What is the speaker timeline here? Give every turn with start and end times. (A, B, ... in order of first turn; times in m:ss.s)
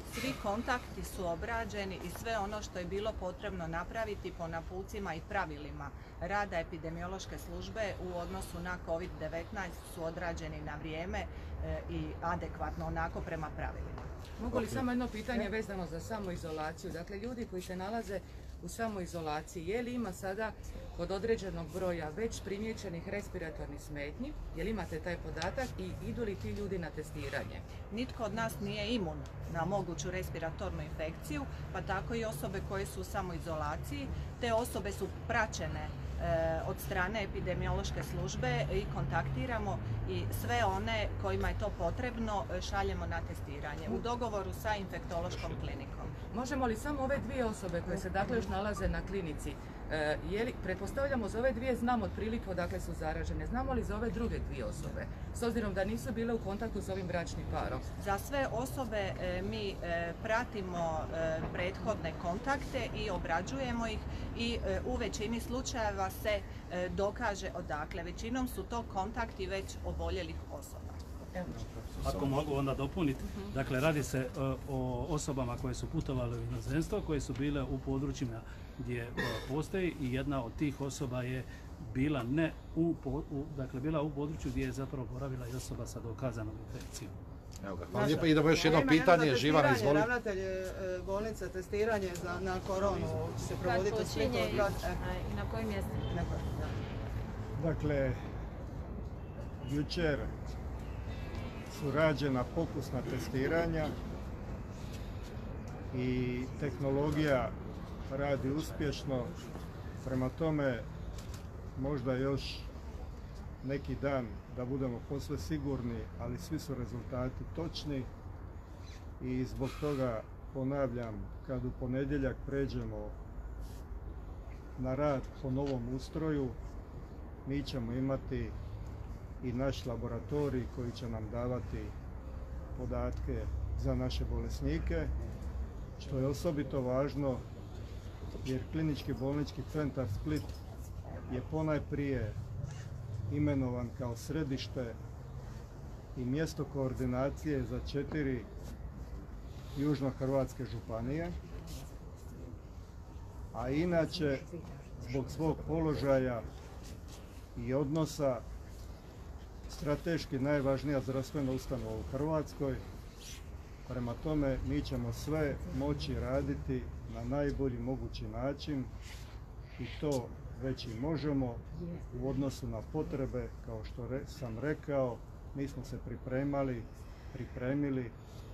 0:00.1-0:14.1 A
0:14.4-0:27.6 B
0:14.5-0:14.8 C
0:27.9-0:46.1 A
0:46.3-0:57.9 B
0:58.0-1:11.4 A
1:11.8-1:12.5 C
1:12.0-1:27.2 D
1:27.6-1:30.1 C
1:27.9-1:35.0 E
1:33.5-1:36.0 F
1:36.1-1:36.7 E
1:37.6-1:38.2 G
1:39.6-1:40.3 G
1:41.7-1:44.0 G
1:45.9-1:47.6 G
1:48.1-1:49.3 G
1:50.0-1:50.9 G
1:51.8-1:52.7 G
1:53.6-1:58.1 G
1:59.2-2:03.2 G
2:04.8-2:06.6 G
2:07.4-2:08.6 G
2:09.4-2:11.9 G
2:12.7-2:15.1 G
2:16.0-2:17.4 G
2:18.4-2:20.5 G
2:21.3-2:22.4 G
2:23.3-2:25.0 G
2:26.1-2:28.5 G
2:29.7-2:31.4 G
2:33.5-2:34.5 G
2:35.0-2:36.4 G
2:37.6-2:38.4 G
2:39.7-2:42.8 G
2:43.9-2:48.9 G
2:49.8-2:58.1 G